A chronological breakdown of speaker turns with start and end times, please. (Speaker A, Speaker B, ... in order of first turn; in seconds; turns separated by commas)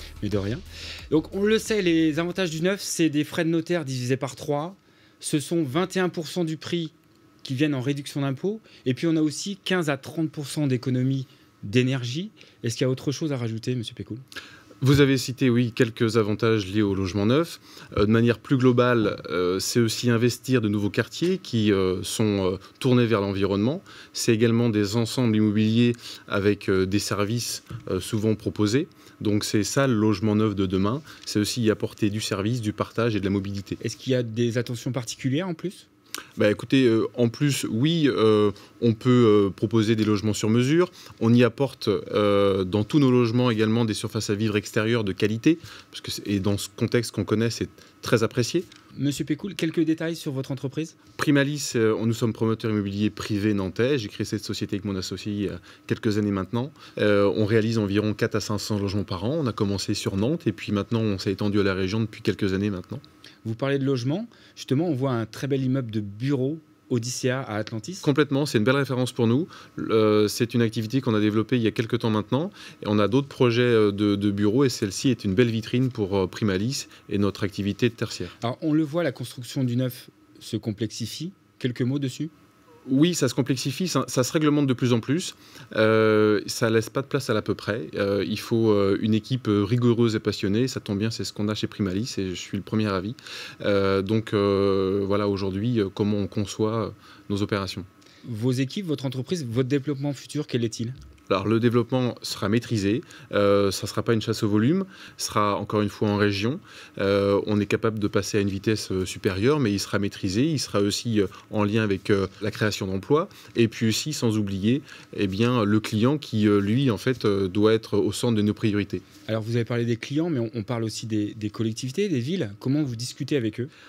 Speaker A: 0.2-14.2, Speaker B: 14.8-33.8, Speaker A: 33.8-35.9, Speaker B: 36.4-48.7, Speaker A: 49.0-51.0, Speaker B: 51.2-63.0, Speaker A: 63.4-68.1, Speaker B: 68.0-78.3, Speaker A: 78.4-82.3, Speaker B: 82.9-97.9, Speaker A: 98.2-101.0, Speaker B: 101.3-119.0, Speaker A: 119.3-123.7